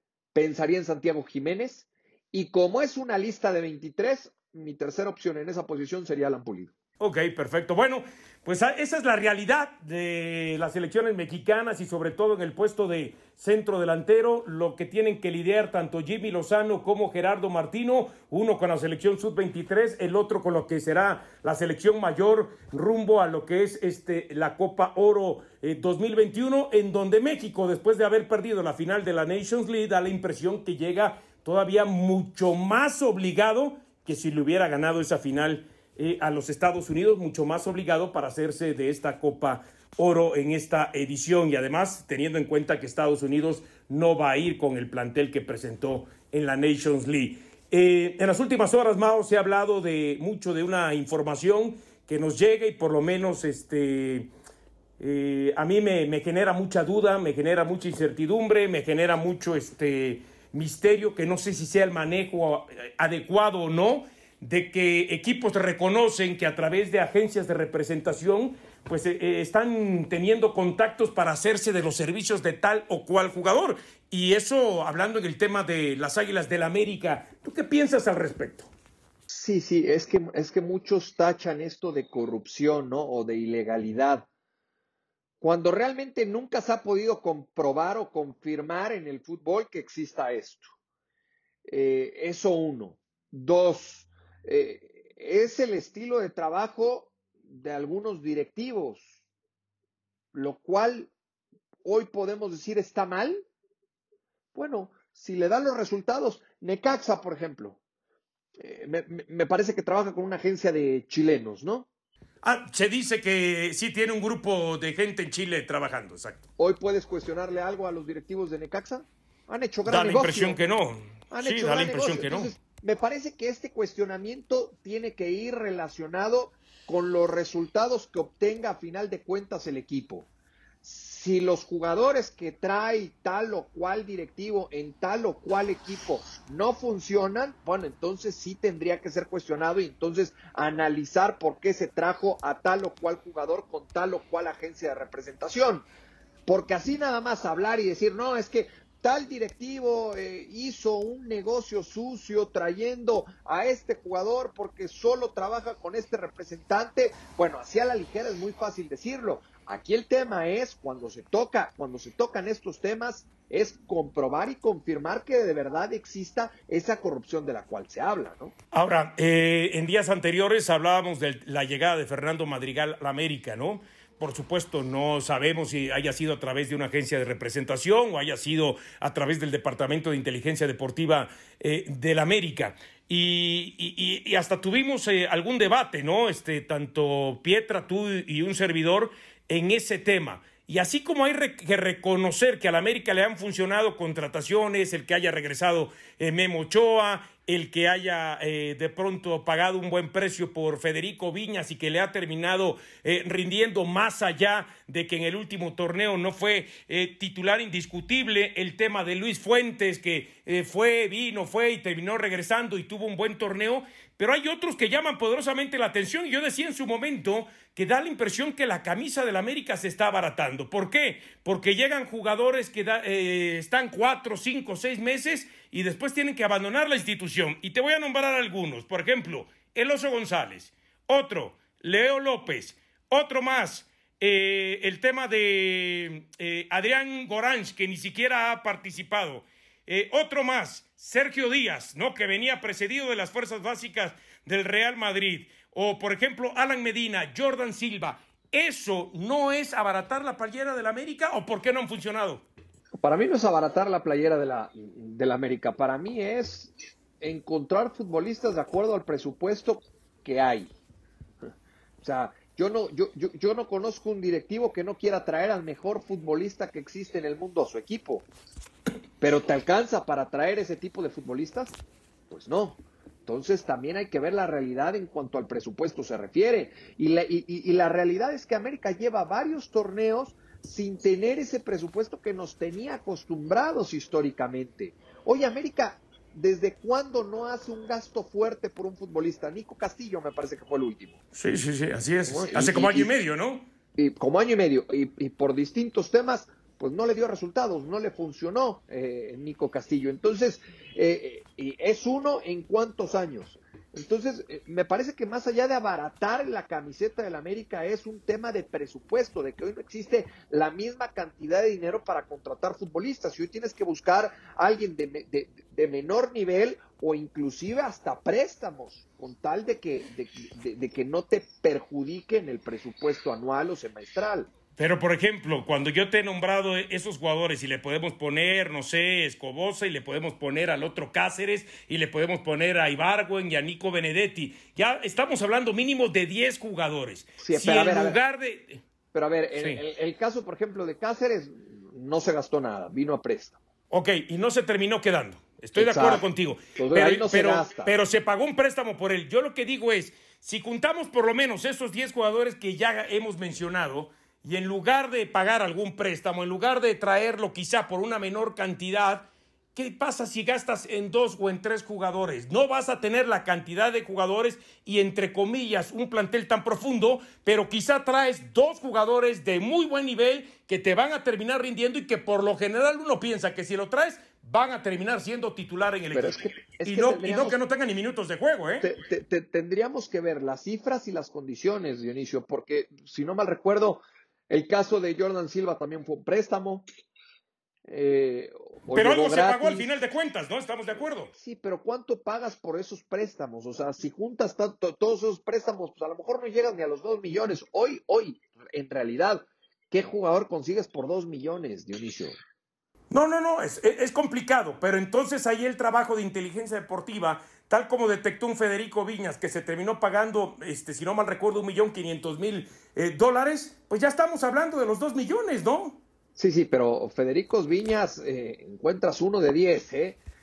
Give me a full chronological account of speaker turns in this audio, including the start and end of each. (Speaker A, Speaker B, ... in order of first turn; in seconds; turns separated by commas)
Speaker A: 0.3-6.7, Speaker B: 7.0-54.3, Speaker B: 55.0-78.7, Speaker A: 79.3-84.3, Speaker A: 85.4-90.7, Speaker A: 91.7-99.2, Speaker A: 100.3-101.1, Speaker A: 101.8-103.5, Speaker A: 104.5-107.8, Speaker A: 108.6-111.9, Speaker B: 112.4-116.5, Speaker A: 116.6-120.6, Speaker B: 119.9-122.5, Speaker A: 121.3-130.3, Speaker A: 130.8-145.9, Speaker A: 146.5-168.5, Speaker B: 168.7-252.4, Speaker A: 253.0-260.7, Speaker A: 262.0-268.3, Speaker A: 269.2-271.8, Speaker A: 272.3-291.2, Speaker B: 291.3-293.7, Speaker A: 292.3-293.1, Speaker A: 294.0-324.5, Speaker B: 324.8-338.8, Speaker A: 337.4-338.2, Speaker A: 339.1-343.6, Speaker B: 339.6-339.8, Speaker B: 343.9-378.9, Speaker A: 345.8-346.2, Speaker A: 346.8-347.9, Speaker A: 376.1-377.6, Speaker A: 378.8-386.9, Speaker A: 387.9-389.9, Speaker B: 388.9-391.3, Speaker A: 391.3-402.4, Speaker B: 403.1-416.0, Speaker A: 416.4-420.2